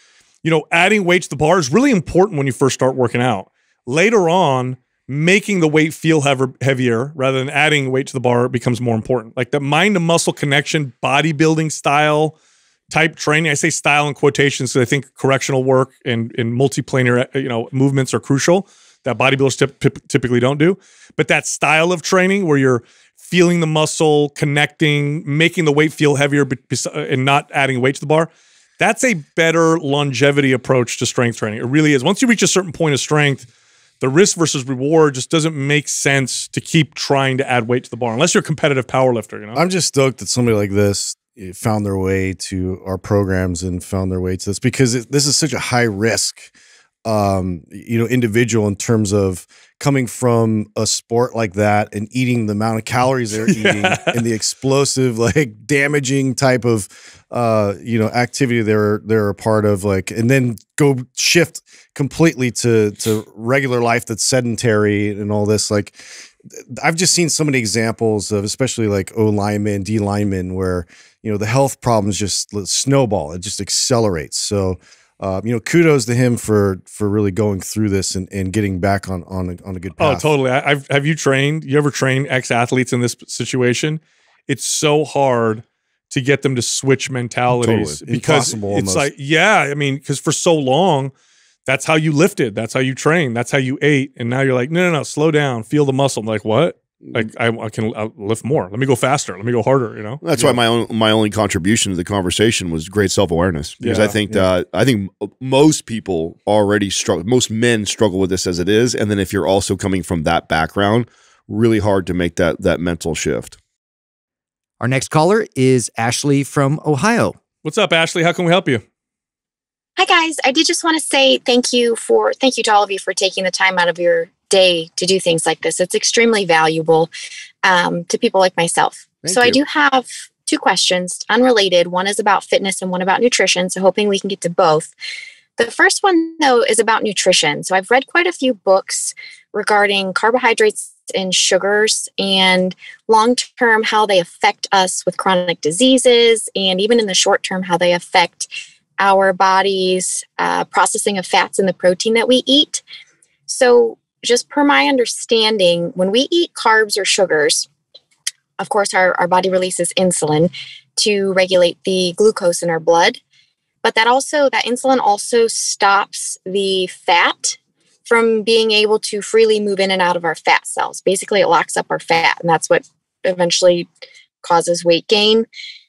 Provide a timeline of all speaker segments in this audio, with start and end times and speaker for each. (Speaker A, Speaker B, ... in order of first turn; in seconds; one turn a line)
Speaker A: 0.4-12.3
Speaker A: 12.9-33.5
Speaker A: 34.0-39.6
Speaker B: 39.5-46.5
Speaker B: 47.0-80.2
Speaker A: 53.5-54.2
Speaker A: 80.0-91.1
Speaker B: 87.6-89.1
Speaker A: 91.7-100.5
Speaker C: 100.2-113.6
Speaker A: 103.8-104.2
Speaker D: 114.8-117.3
Speaker A: 117.6-118.8
Speaker E: 120.0-127.1
Speaker E: 127.6-134.9
Speaker C: 129.2-129.6
Speaker E: 135.6-152.8
Speaker E: 153.5-157.7
Speaker E: 158.6-163.2
Speaker E: 163.8-173.9
Speaker E: 174.4-175.5